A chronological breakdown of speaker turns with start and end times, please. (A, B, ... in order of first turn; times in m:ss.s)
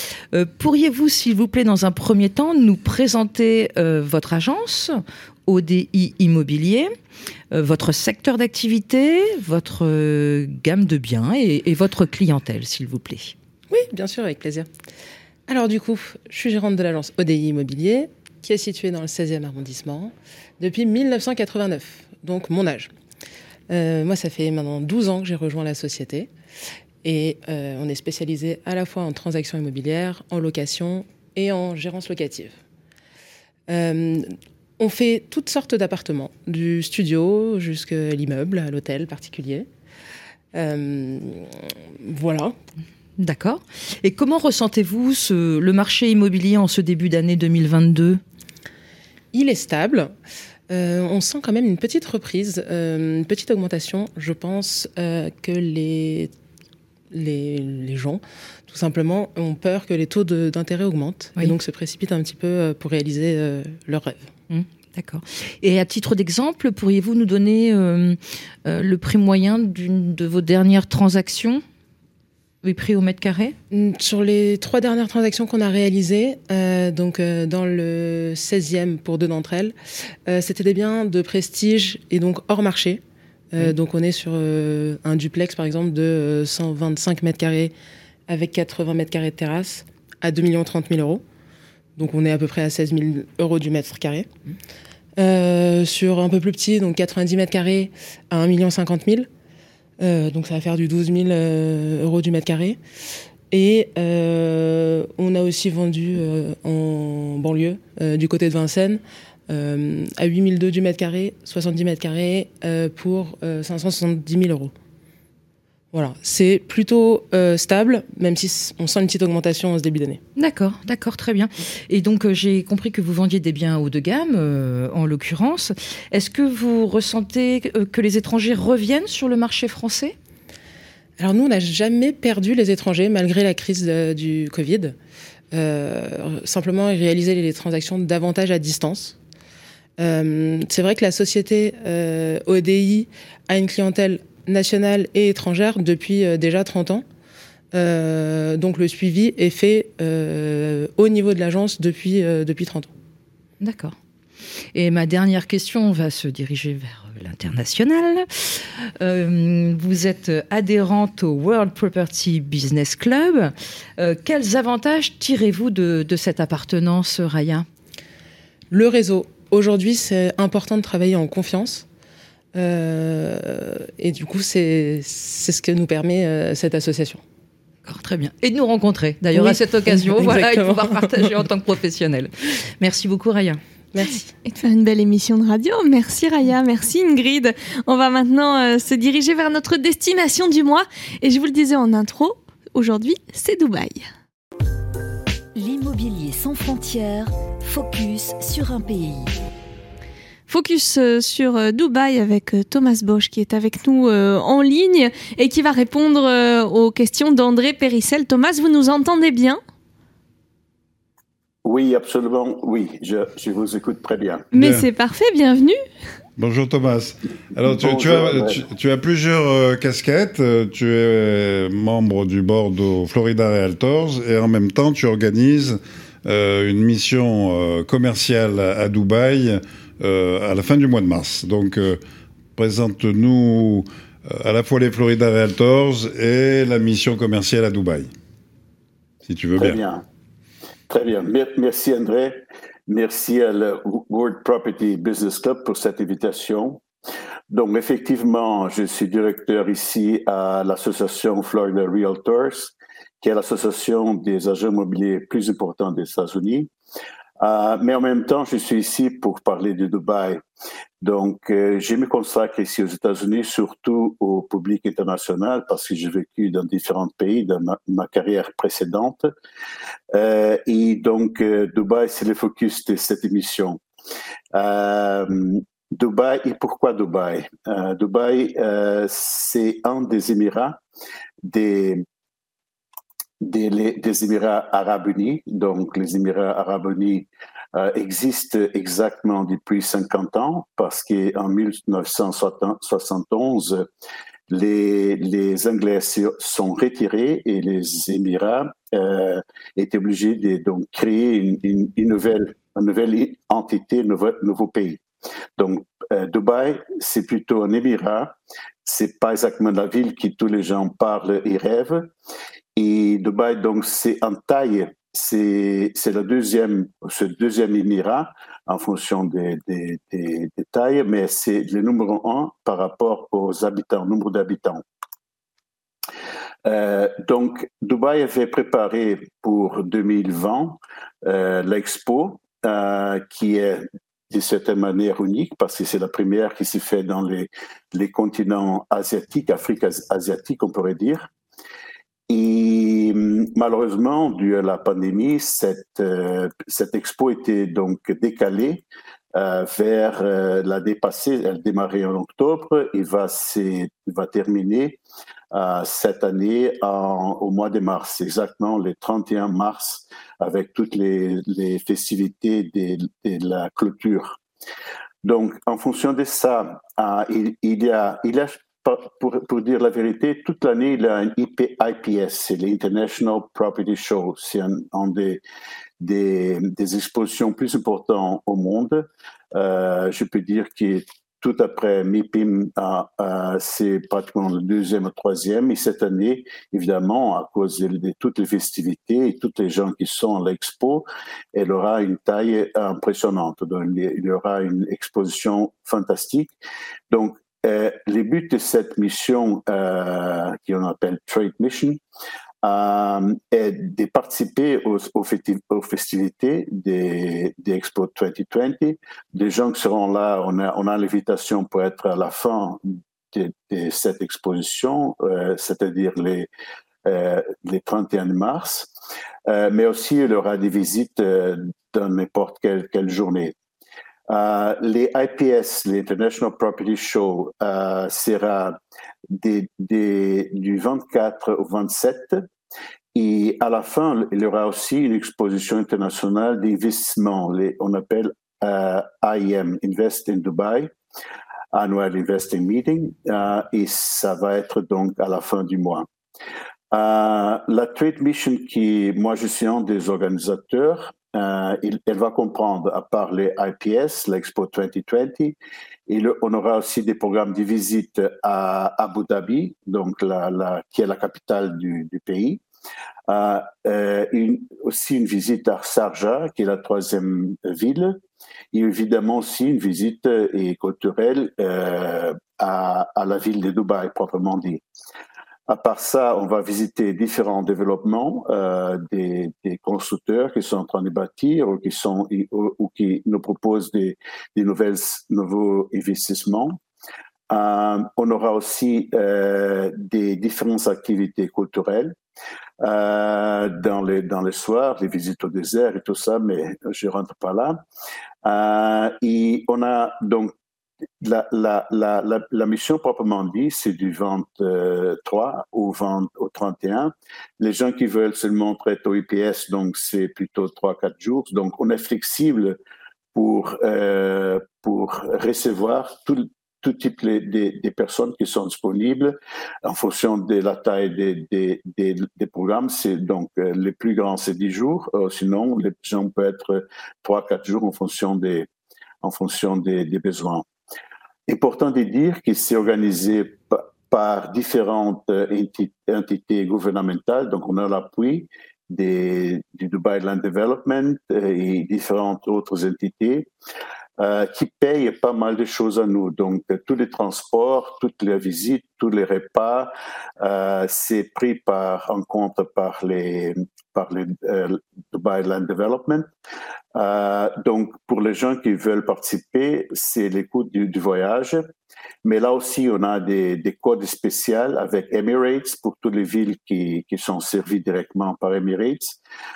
0:00.3-0:06.9 A
0:07.5-0:13.3 A
0:13.7-0:14.7 B
0:15.5-0:22.9 B
0:23.7-0:26.3 B
0:27.0-0:32.5 B
0:33.7-0:39.7 B
0:40.5-0:42.5 B
0:43.2-0:48.2 A
0:49.3-0:50.1 B
0:50.7-0:56.3 B
0:57.1-1:04.2 B
1:04.5-1:11.6 A
1:12.6-1:13.6 A
1:13.7-1:19.7 B
1:20.3-1:23.0 B
1:23.5-1:27.7 B
1:28.3-1:31.2 B
1:32.0-1:34.3 B
1:35.2-1:39.3 B
1:40.0-1:42.8 B
1:43.5-1:54.7 B
1:55.9-2:00.2 B
2:00.4-2:10.1 A
2:11.2-2:14.9 B
2:15.5-2:19.2 B
2:20.0-2:27.0 B
2:27.7-2:32.9 B
2:33.6-2:33.9 A
2:34.7-2:47.6 A
2:48.7-2:51.8 B
2:52.5-2:57.2 B
2:57.8-3:03.6 A
2:59.3-3:01.3 B
3:03.9-3:04.3 B
3:04.4-3:14.0 C
3:15.5-3:19.3 D
3:20.5-3:29.6 C
3:31.6-3:34.5 E
3:34.5-3:35.8 C
3:34.5-3:34.8 F
3:36.4-3:52.0 F
3:37.7-3:38.6 E
3:52.6-3:58.1 F
3:59.2-3:59.8 F
3:59.6-4:00.0 E
4:00.9-4:06.8 E
4:07.5-4:16.7 E
4:17.4-4:20.4 E
4:21.0-4:29.3 E
4:30.1-4:33.8 E
4:34.5-4:40.8 E
4:41.4-4:42.0 E
4:43.4-4:53.9 E
4:54.5-5:05.0 E
5:05.6-5:12.1 E
5:12.7-5:24.8 E
5:26.6-5:41.3 E
5:42.3-5:55.0 E
5:55.5-6:04.4 E
6:05.2-6:15.4 E
6:16.0-6:36.5 E
6:37.1-6:42.0 E
6:42.6-6:56.5 E
6:57.0-6:58.9 E
6:59.5-7:03.6 E
7:04.3-7:08.8 E
7:09.3-7:12.4 E
7:13.1-7:20.9 E
7:21.7-7:26.1 E
7:26.9-7:35.6 E
7:36.1-7:42.6 E
7:43.3-7:48.2 E
7:48.7-7:54.8 E
7:55.7-8:06.8 E
8:07.5-8:12.2 E
8:12.8-8:17.8 E
8:18.4-8:20.5 E
8:21.2-8:32.8 E
8:33.3-8:48.7 E
8:49.2-8:50.6 E
8:51.5-9:03.5 E
9:04.2-9:16.3 E
9:16.9-9:21.7 E
9:22.2-9:29.2 E